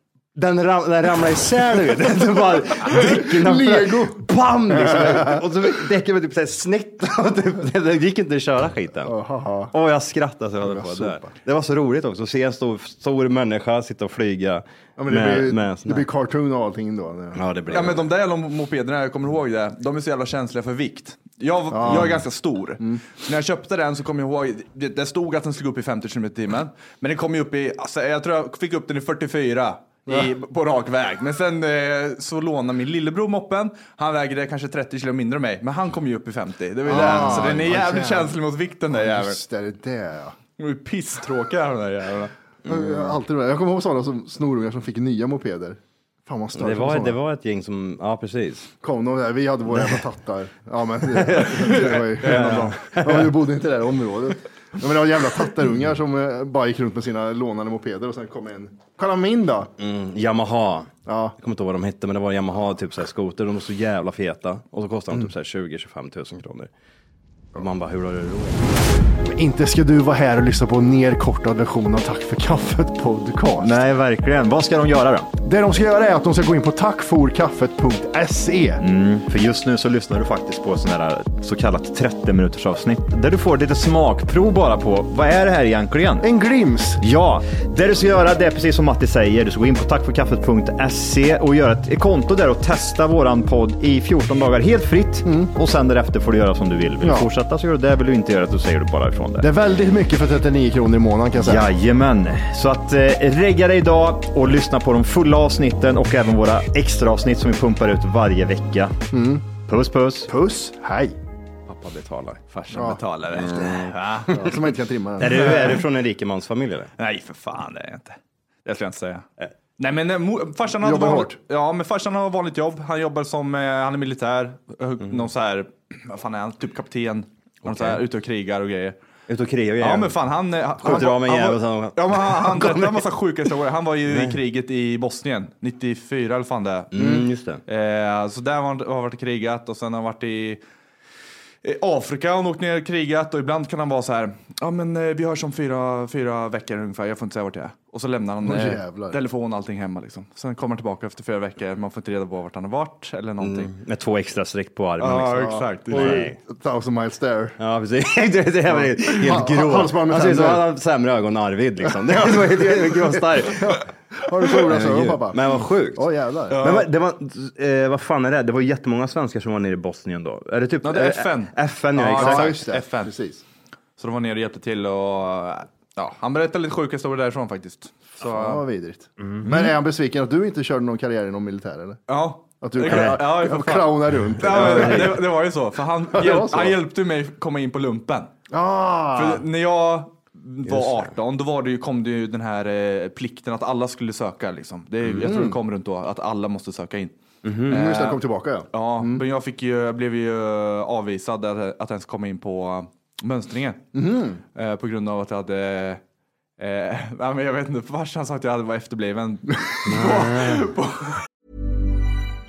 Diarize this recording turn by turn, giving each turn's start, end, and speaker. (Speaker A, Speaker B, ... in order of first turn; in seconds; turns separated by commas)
Speaker A: 0.3-9.1, Speaker B: 2.9-5.4, Speaker B: 9.0-9.7, Speaker A: 9.7-16.1, Speaker B: 10.6-11.3, Speaker B: 15.0-17.4, Speaker A: 17.3-18.1, Speaker C: 17.7-39.4, Speaker B: 21.7-22.2, Speaker A: 21.9-22.2, Speaker B: 36.9-38.4, Speaker A: 36.9-37.6, Speaker B: 38.9-40.4, Speaker C: 40.6-42.3, Speaker A: 42.7-43.1, Speaker B: 42.7-47.2, Speaker A: 46.5-48.7, Speaker B: 48.8-59.7, Speaker A: 51.2-53.4, Speaker C: 51.8-52.8, Speaker A: 59.8-66.7, Speaker B: 61.1-61.4, Speaker A: 67.5-68.6, Speaker B: 69.2-73.8, Speaker D: 73.6-75.3, Speaker B: 75.4-78.8, Speaker D: 78.8-86.2, Speaker B: 86.2-87.0, Speaker D: 87.0-99.5, Speaker B: 95.2-95.5, Speaker B: 97.0-97.3, Speaker B: 99.4-101.7, Speaker D: 101.4-109.0, Speaker B: 109.1-109.5, Speaker D: 109.6-110.3, Speaker B: 110.3-111.2, Speaker A: 111.7-112.4, Speaker C: 112.5-114.5, Speaker B: 112.7-115.8, Speaker A: 113.3-114.0, Speaker A: 115.2-116.9, Speaker C: 115.2-115.7, Speaker C: 117.0-119.2, Speaker C: 119.8-128.9, Speaker B: 120.8-121.4, Speaker A: 127.7-128.0, Speaker A: 129.3-130.2, Speaker C: 129.8-137.1, Speaker A: 130.8-133.1, Speaker A: 134.1-134.4, Speaker A: 136.9-137.6, Speaker B: 137.0-137.2, Speaker C: 137.7-140.6, Speaker C: 141.6-153.7, Speaker B: 148.4-149.2, Speaker A: 153.4-156.4, Speaker C: 155.0-156.3, Speaker B: 155.4-157.6, Speaker A: 157.6-163.8, Speaker B: 158.7-160.7, Speaker B: 162.2-166.6, Speaker A: 164.5-166.1, Speaker C: 166.5-166.9, Speaker A: 166.6-172.6, Speaker C: 170.8-173.1, Speaker B: 172.1-173.4, Speaker C: 174.0-178.6, Speaker B: 178.2-182.0, Speaker C: 179.4-179.7, Speaker C: 182.1-188.3, Speaker B: 182.6-185.2, Speaker A: 182.9-183.1, Speaker A: 184.4-185.2, Speaker B: 186.1-186.8, Speaker B: 188.5-189.4, Speaker C: 189.2-197.1, Speaker A: 190.7-191.1, Speaker B: 195.2-195.6, Speaker A: 197.4-197.9, Speaker C: 197.7-203.8, Speaker B: 197.7-199.2, Speaker B: 203.9-204.4, Speaker C: 204.6-206.0, Speaker C: 206.6-211.2, Speaker A: 209.9-210.7